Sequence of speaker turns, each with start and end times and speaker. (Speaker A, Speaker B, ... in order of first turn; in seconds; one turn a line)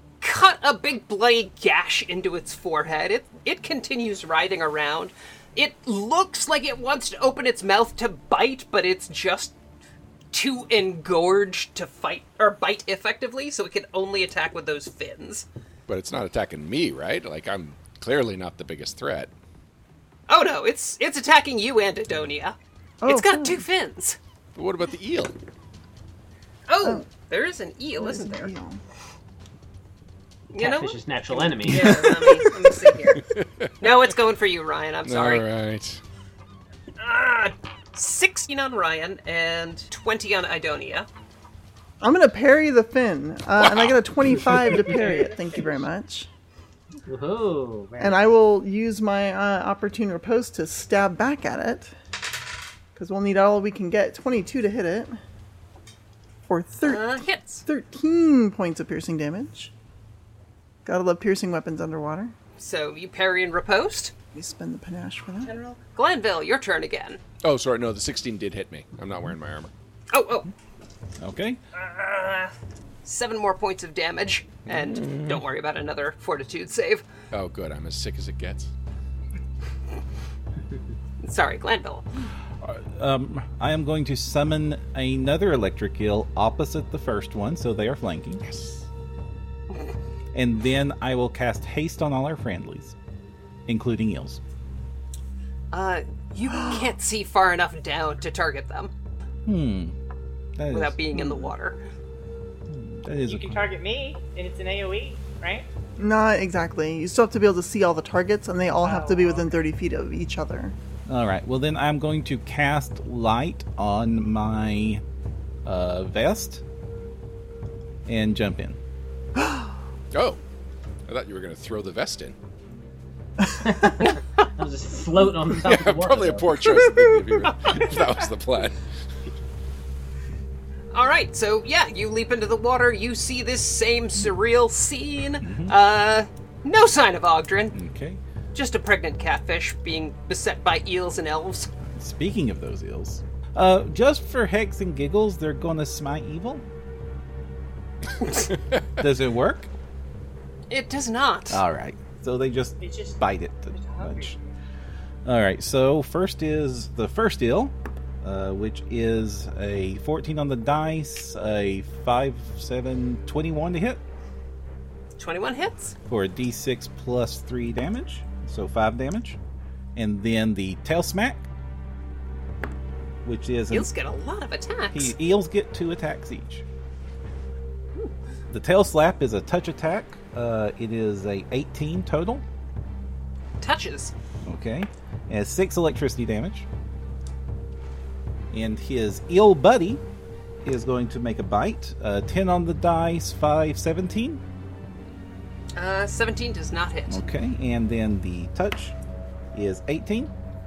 Speaker A: 0.2-9.6
Speaker A: 10.3-15.5
Speaker B: 15.9-19.3
Speaker A: 20.3-24.2
Speaker C: 23.0-23.6
Speaker B: 24.6-25.4
Speaker A: 26.7-28.5
Speaker C: 28.0-28.8
Speaker A: 30.5-31.0
Speaker D: 30.6-32.1
Speaker A: 31.6-33.3
Speaker B: 33.2-33.9
Speaker A: 33.8-35.5
Speaker B: 35.0-36.0
Speaker A: 37.0-41.1
Speaker C: 42.0-46.3
Speaker B: 43.6-44.0
Speaker D: 47.1-48.3
Speaker C: 48.0-52.0
Speaker C: 53.0-55.2
Speaker C: 56.5-59.7
Speaker A: 56.8-57.6
Speaker C: 60.9-62.3
Speaker A: 62.6-64.1
Speaker C: 64.3-65.5
Speaker A: 65.4-67.2
Speaker B: 67.4-69.7
Speaker A: 70.1-70.5
Speaker E: 71.2-71.6
Speaker A: 71.7-72.5
Speaker A: 73.0-77.0
Speaker B: 74.7-75.3
Speaker B: 77.3-78.7
Speaker A: 81.2-82.0
Speaker E: 82.6-88.4
Speaker B: 88.5-88.8
Speaker E: 90.3-93.0
Speaker E: 93.7-94.4
Speaker A: 95.7-98.9
Speaker E: 99.5-100.0
Speaker E: 100.6-101.0
Speaker A: 100.7-101.8
Speaker C: 101.1-101.5
Speaker E: 102.7-103.7
Speaker F: 103.2-105.7
Speaker C: 106.0-110.8
Speaker F: 108.8-109.6
Speaker E: 111.1-115.0
Speaker E: 115.6-116.6
Speaker E: 118.1-118.8
Speaker B: 120.1-120.4
Speaker B: 121.1-122.3
Speaker D: 123.6-126.5
Speaker B: 125.6-128.8
Speaker A: 130.9-137.8
Speaker E: 135.4-135.8
Speaker E: 137.7-138.2
Speaker A: 138.5-141.7
Speaker E: 141.9-146.6
Speaker E: 149.0-149.7
Speaker A: 150.7-151.6
Speaker E: 151.5-154.4
Speaker F: 152.8-154.4
Speaker E: 155.2-164.0
Speaker A: 165.2-165.9
Speaker E: 166.1-169.4
Speaker E: 170.0-171.4
Speaker E: 173.2-173.9
Speaker A: 173.7-175.1
Speaker E: 174.9-176.6
Speaker E: 178.5-182.4
Speaker A: 183.6-184.1
Speaker E: 184.4-186.7
Speaker E: 188.5-190.0
Speaker E: 190.6-194.4
Speaker A: 195.8-197.2
Speaker E: 197.1-199.0
Speaker E: 199.5-200.3